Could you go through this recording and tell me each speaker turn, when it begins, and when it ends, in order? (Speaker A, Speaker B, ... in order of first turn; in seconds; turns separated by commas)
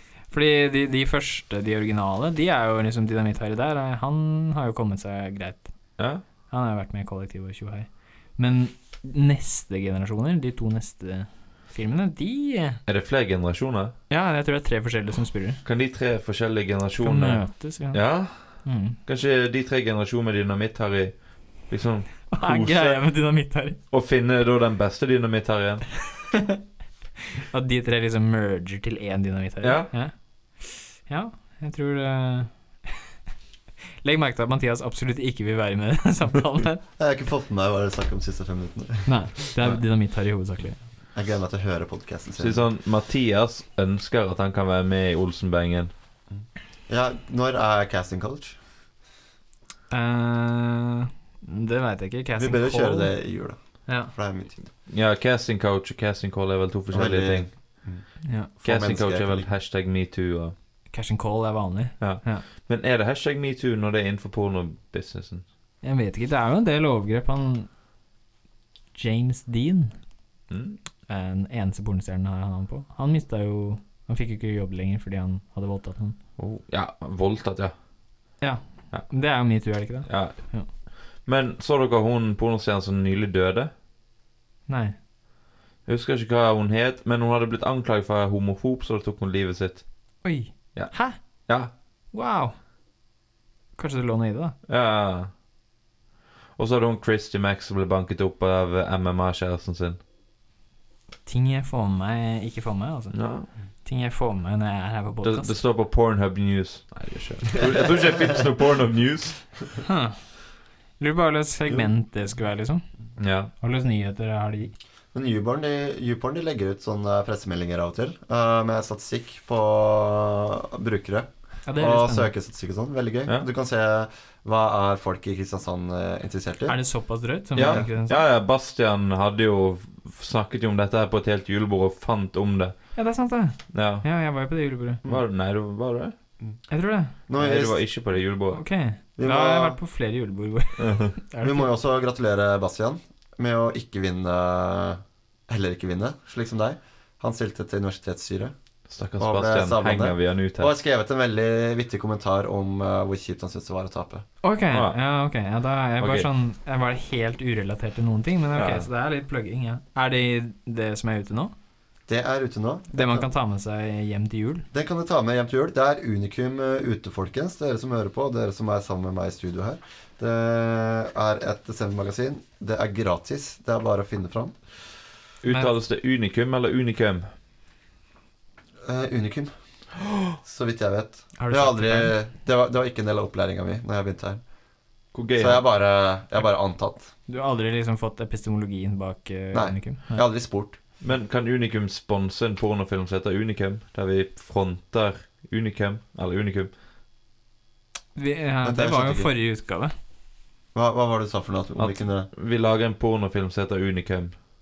Speaker A: 0.3-5.7, Speaker A: 6.5-12.8, Speaker B: 12.9-13.9, Speaker A: 14.1-15.6, Speaker B: 15.6-23.0, Speaker A: 17.0-18.0, Speaker A: 18.6-19.0, Speaker A: 22.3-23.8, Speaker B: 23.9-25.9, Speaker A: 26.3-26.6, Speaker A: 27.4-33.0, Speaker B: 29.6-29.9, Speaker A: 34.0-36.8, Speaker C: 37.0-39.1, Speaker A: 39.0-40.8, Speaker C: 41.1-42.6, Speaker B: 42.4-45.9, Speaker C: 46.3-48.6, Speaker A: 49.9-53.1, Speaker C: 52.4-54.6, Speaker A: 53.9-54.1, Speaker B: 54.9-57.5, Speaker C: 56.9-58.0, Speaker A: 58.2-58.5, Speaker C: 58.5-59.5, Speaker B: 58.6-60.5, Speaker A: 60.9-62.5, Speaker B: 62.0-65.4, Speaker A: 65.8-67.7, Speaker A: 68.9-69.9, Speaker B: 70.5-70.8, Speaker A: 71.1-76.2, Speaker B: 76.4-77.7, Speaker A: 78.4-80.7, Speaker B: 80.1-80.5, Speaker B: 81.2-83.7, Speaker A: 84.7-85.0, Speaker B: 85.8-89.8, Speaker A: 90.2-91.2, Speaker A: 92.1-92.5, Speaker A: 93.8-94.5, Speaker B: 94.7-95.3, Speaker B: 96.6-100.0, Speaker A: 101.2-103.2, Speaker B: 103.1-103.5, Speaker A: 103.8-105.5, Speaker B: 105.2-109.4, Speaker A: 109.8-110.2, Speaker A: 111.0-112.8, Speaker B: 113.2-113.5, Speaker A: 113.6-114.7, Speaker C: 115.1-126.8, Speaker A: 121.7-122.3, Speaker A: 126.7-128.2, Speaker B: 127.5-132.9, Speaker C: 127.6-127.8, Speaker A: 132.9-135.0, Speaker B: 133.7-134.0, Speaker B: 135.0-136.1, Speaker A: 136.7-137.1, Speaker C: 137.3-137.8, Speaker B: 137.4-138.6, Speaker A: 138.5-141.7, Speaker C: 139.2-139.8, Speaker B: 140.8-141.1, Speaker C: 141.4-148.5, Speaker B: 148.9-150.8, Speaker C: 149.2-154.2, Speaker A: 154.4-161.5, Speaker B: 156.0-156.3, Speaker B: 158.5-158.9, Speaker C: 162.1-163.3, Speaker A: 162.9-164.7, Speaker C: 164.7-174.5, Speaker B: 175.4-177.3, Speaker A: 175.5-175.7, Speaker C: 178.8-179.5, Speaker C: 180.4-184.4, Speaker A: 181.4-182.1, Speaker B: 185.1-185.6, Speaker C: 185.4-187.1, Speaker A: 187.3-190.2, Speaker C: 189.5-190.8, Speaker B: 191.0-196.7, Speaker A: 198.1-199.9, Speaker C: 198.6-199.3, Speaker C: 200.7-202.3, Speaker B: 201.8-204.3